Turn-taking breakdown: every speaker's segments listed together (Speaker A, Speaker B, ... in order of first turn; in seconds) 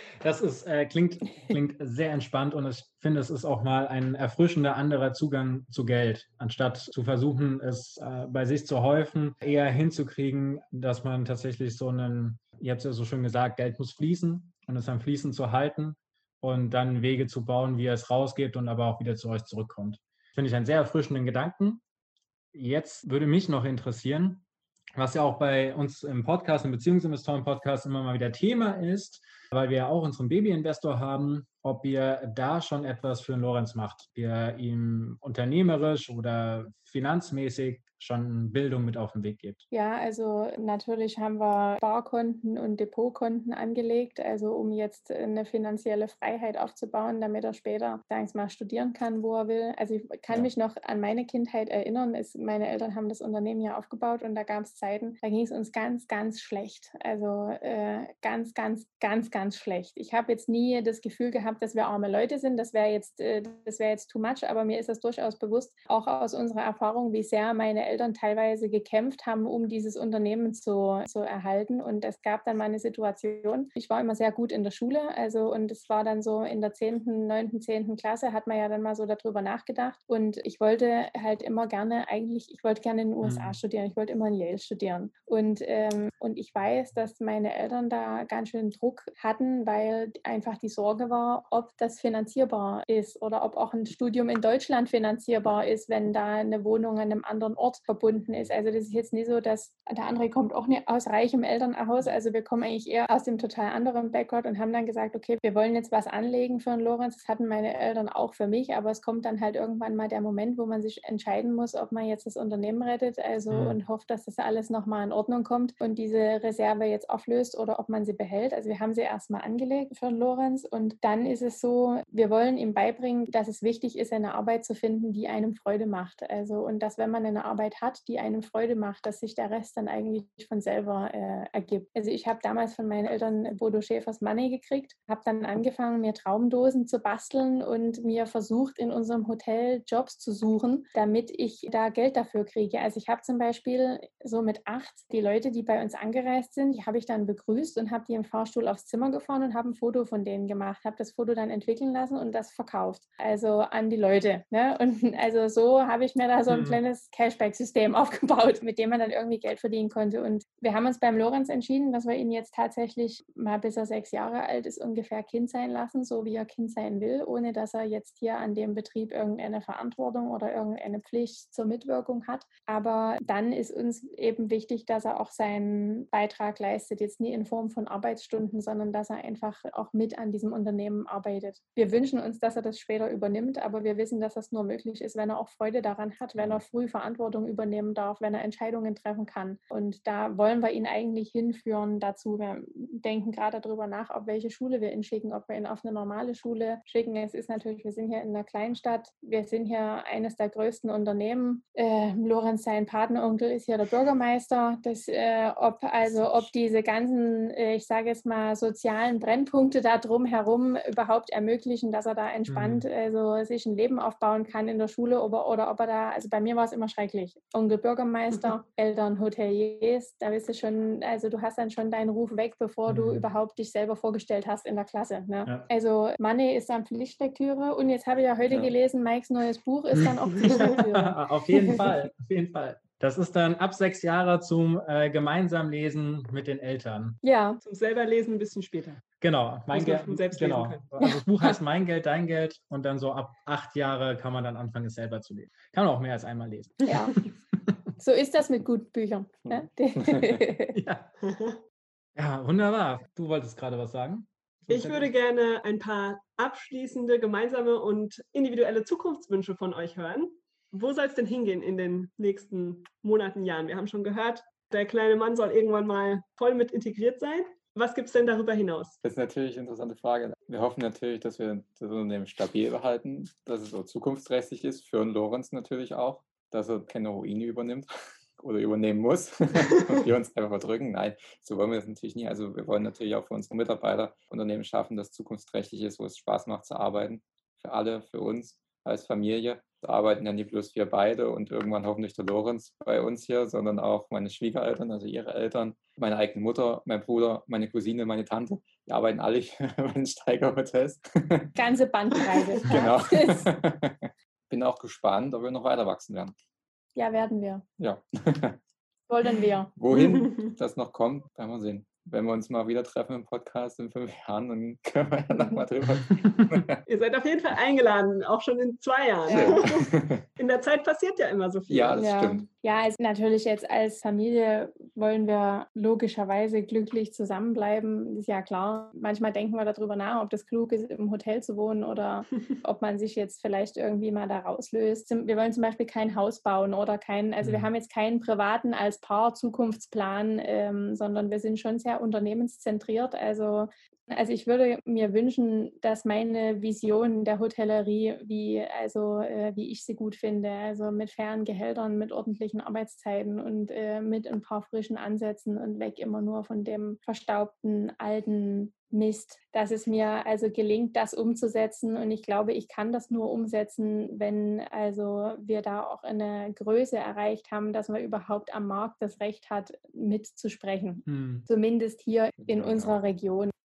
Speaker A: 0.2-21.8, 22.5-24.4, 24.9-39.6, 83.2-83.6, 113.5-113.8, 156.5-156.8, 212.5-212.9, 222.9-223.2, 229.9-237.2, 239.2-247.8, 250.7-251.1, 252.2-255.1, 337.4-337.7, 371.1-371.4
Speaker B: 39.7-231.8, 237.2-237.6, 246.9-247.1, 248.0-250.8, 301.6-303.5, 306.9-307.6, 309.1-309.7, 319.3-319.6, 322.0-373.5
Speaker C: 237.6-239.0, 239.7-240.9, 251.2-251.6, 254.7-269.0, 309.9-310.5, 316.9-322.0
Speaker D: 249.5-250.4, 269.0-301.6, 302.6-306.3, 307.8-308.6, 309.8-316.8, 319.3-320.2, 321.7-322.4, 372.5-372.9